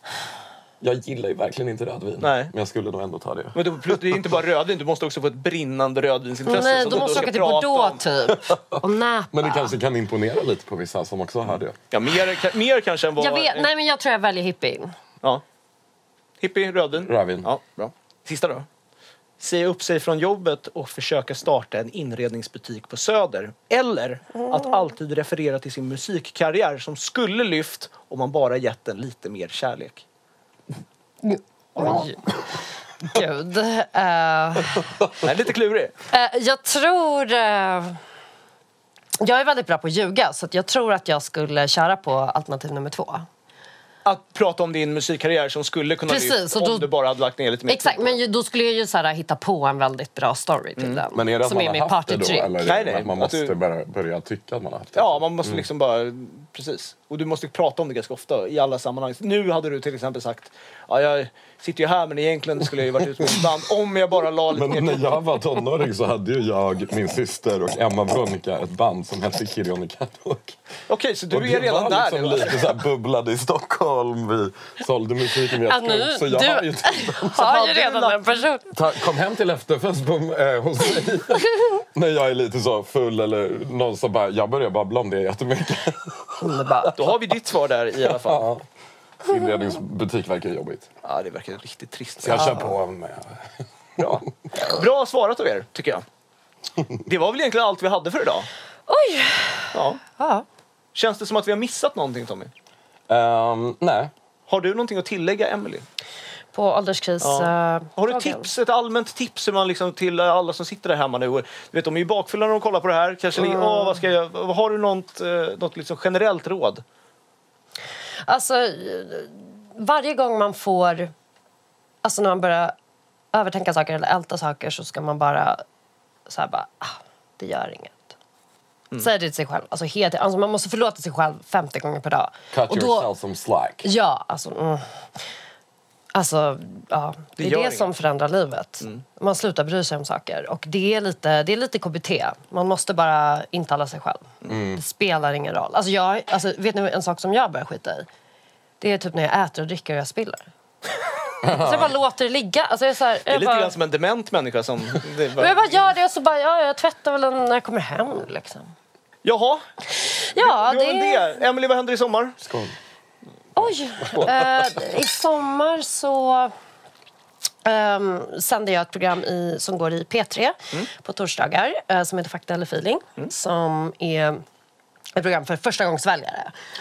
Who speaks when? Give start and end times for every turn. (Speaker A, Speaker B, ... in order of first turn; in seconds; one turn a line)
Speaker A: 0.8-4.2
Speaker B: 2.2-2.5
Speaker B: 3.5-8.0
Speaker C: 6.5-9.8
Speaker A: 8.5-8.8
Speaker A: 9.3-11.8
Speaker B: 11.9-13.7
Speaker C: 13.2-14.9
Speaker B: 16.4-18.7
Speaker A: 17.0-17.5
Speaker B: 19.4-30.0
Speaker C: 31.2-32.4
Speaker C: 33.0-35.0
Speaker B: 35.2-35.9
Speaker C: 36.1-38.0
Speaker C: 39.2-43.3
Speaker B: 44.0-48.2
Speaker C: 46.1-46.9
Speaker C: 47.7-52.5
Speaker B: 50.8-51.0
Speaker A: 51.1-55.6
Speaker B: 52.6-53.5
Speaker B: 54.9-65.2
Speaker A: 64.5-70.6
Speaker B: 70.9-72.8
Speaker A: 71.3-77.5
Speaker C: 75.6-78.7
Speaker B: 77.3-78.4
Speaker A: 78.7-87.1
Speaker C: 86.4-86.9
Speaker B: 86.9-88.5
Speaker A: 88.1-88.6
Speaker A: 89.2-90.9
Speaker B: 91.0-92.7
Speaker A: 92.2-94.3
Speaker C: 92.3-92.6
Speaker B: 94.6-96.0
Speaker B: 97.0-98.5
Speaker C: 98.9-100.5
Speaker B: 99.7-100.0
Speaker B: 100.9-102.5
Speaker A: 103.1-104.1
Speaker B: 104.5-105.8
Speaker C: 106.5-108.5
Speaker B: 107.2-116.8
Speaker C: 113.3-114.0
Speaker C: 118.2-121.1
Speaker C: 122.0-122.7
Speaker C: 123.3-125.6
Speaker C: 126.3-128.1
Speaker C: 129.0-133.1
Speaker A: 132.5-133.8
Speaker C: 133.8-134.8
Speaker C: 136.1-148.1
Speaker B: 137.4-137.9
Speaker A: 144.5-144.8
Speaker C: 148.8-150.4
Speaker A: 151.4-151.9
Speaker C: 151.4-153.7
Speaker B: 153.3-155.9
Speaker C: 155.3-158.7
Speaker B: 159.2-159.6
Speaker B: 160.3-162.4
Speaker C: 160.3-161.3
Speaker A: 162.4-162.7
Speaker C: 163.6-166.5
Speaker A: 164.2-164.7
Speaker C: 167.6-174.4
Speaker C: 175.1-176.5